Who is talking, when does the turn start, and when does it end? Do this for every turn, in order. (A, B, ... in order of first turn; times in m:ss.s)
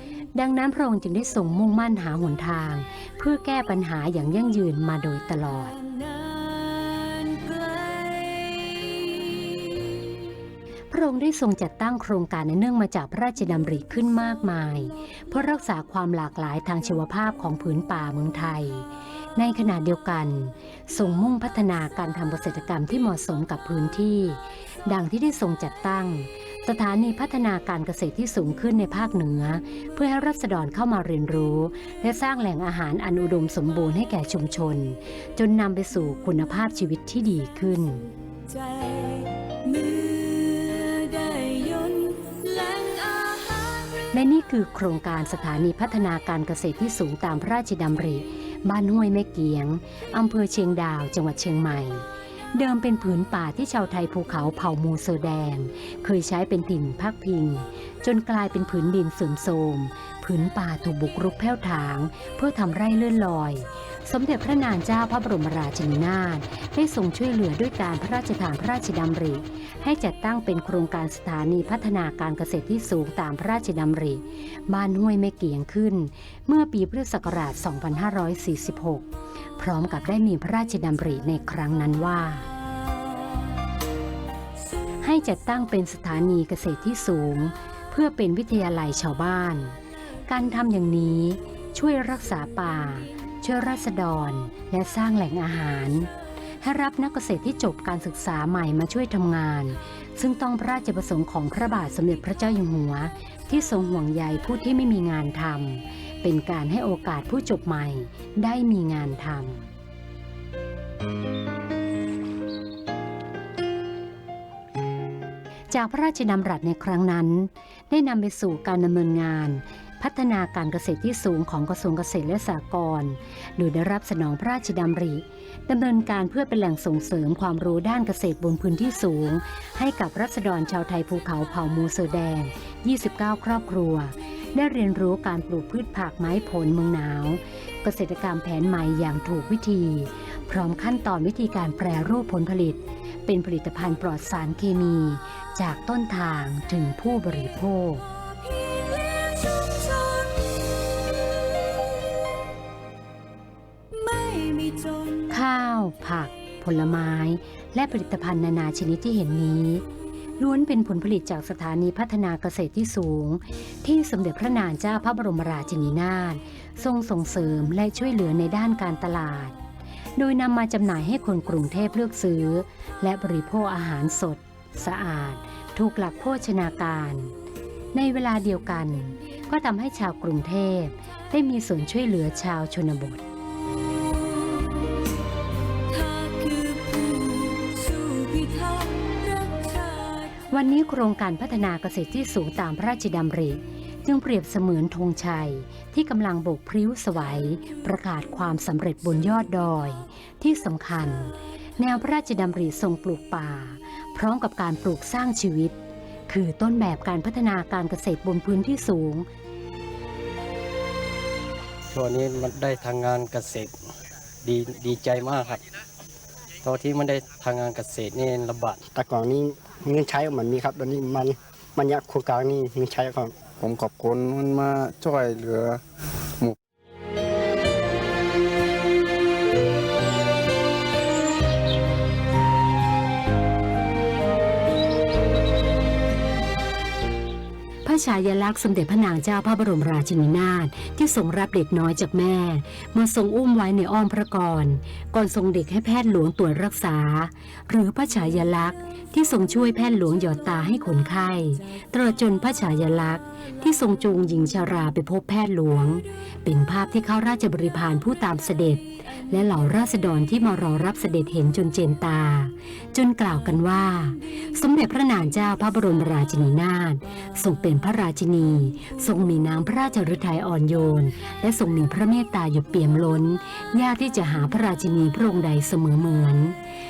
0:00.4-0:05.7 A
0:05.8-0:10.2 B
0:10.9-0:38.1 A
0:38.5-0:44.0 B
0:44.1-1:19.1 A
1:19.6-1:22.5 A
1:25.0-1:36.1 A
1:36.6-1:49.7 A
1:55.7-2:28.0 A
2:28.4-2:31.9 B
2:33.9-2:35.3 B
2:35.3-2:39.8 A
2:40.4-2:49.6 A
2:50.2-2:57.3 A
2:57.9-3:03.2 A
3:05.9-3:10.3 B
3:10.5-3:25.8 A
3:26.3-3:29.3 A
3:31.9-3:33.7 C
3:34.4-3:35.6 C
3:36.6-3:38.9 C
3:38.9-3:43.4 D
3:43.2-3:45.8 E
3:57.8-4:36.6 A